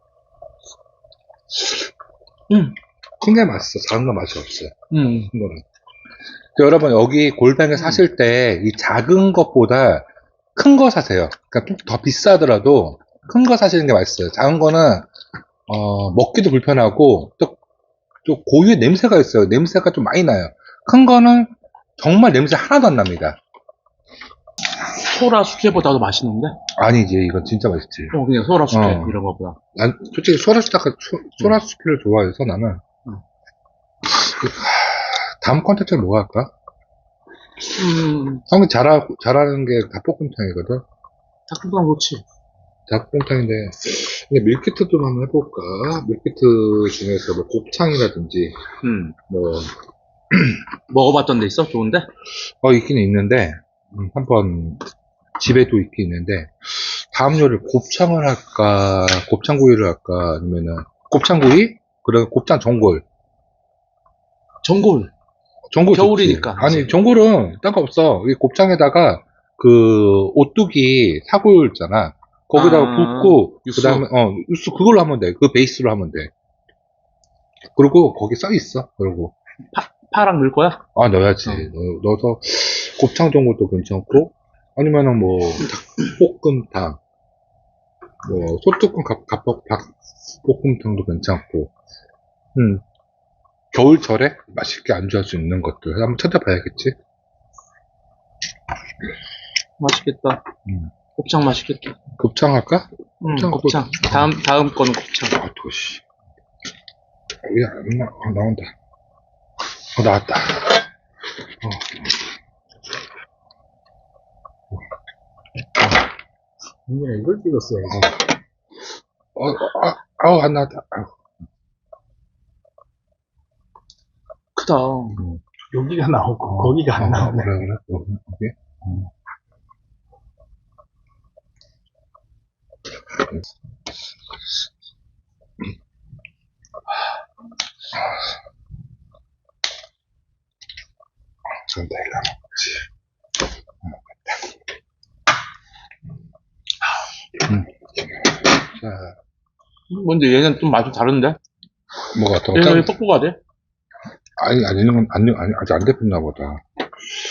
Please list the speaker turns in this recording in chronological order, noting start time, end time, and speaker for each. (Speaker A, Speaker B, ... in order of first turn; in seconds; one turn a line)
Speaker A: 2.5-2.8
Speaker B: 3.2-5.6
Speaker A: 4.9-5.3
Speaker B: 6.5-15.1
Speaker B: 15.7-17.6
Speaker B: 18.2-23.4
Speaker A: 25.0-26.6
Speaker B: 26.7-28.1
Speaker A: 28.1-29.6
Speaker B: 28.7-29.2
Speaker B: 29.7-32.8
Speaker B: 34.0-36.5
Speaker A: 37.6-38.4
Speaker B: 38.5-40.8
Speaker A: 41.5-42.2
Speaker B: 42.9-48.6
Speaker A: 48.8-49.1
Speaker B: 49.3-49.7
Speaker A: 50.9-52.1
Speaker B: 52.6-54.8
Speaker B: 55.4-63.0
Speaker A: 64.6-65.1
Speaker B: 65.7-76.3
Speaker A: 65.9-66.9
Speaker A: 72.5-74.0
Speaker B: 77.8-79.3
Speaker A: 79.7-80.8
Speaker B: 81.0-87.0
Speaker B: 88.2-89.9
Speaker B: 90.4-91.7
Speaker B: 92.5-92.8
Speaker B: 93.7-96.9
Speaker A: 99.8-100.4
Speaker B: 100.7-100.9
Speaker A: 101.2-101.9
Speaker B: 102.2-104.3
Speaker A: 103.2-105.4
Speaker B: 105.3-106.0
Speaker B: 107.4-108.7
Speaker B: 110.0-110.9
Speaker B: 111.6-112.1
Speaker C: 116.9-118.1
Speaker B: 117.9-118.2
Speaker B: 119.3-121.1
Speaker A: 124.5-125.2
Speaker C: 125.7-127.6
Speaker B: 126.5-129.1
Speaker B: 141.6-142.9
Speaker B: 143.8-144.3
Speaker B: 147.4-149.2
Speaker A: 149.9-151.4
Speaker B: 152.1-152.9
Speaker A: 152.5-153.4
Speaker B: 154.4-156.6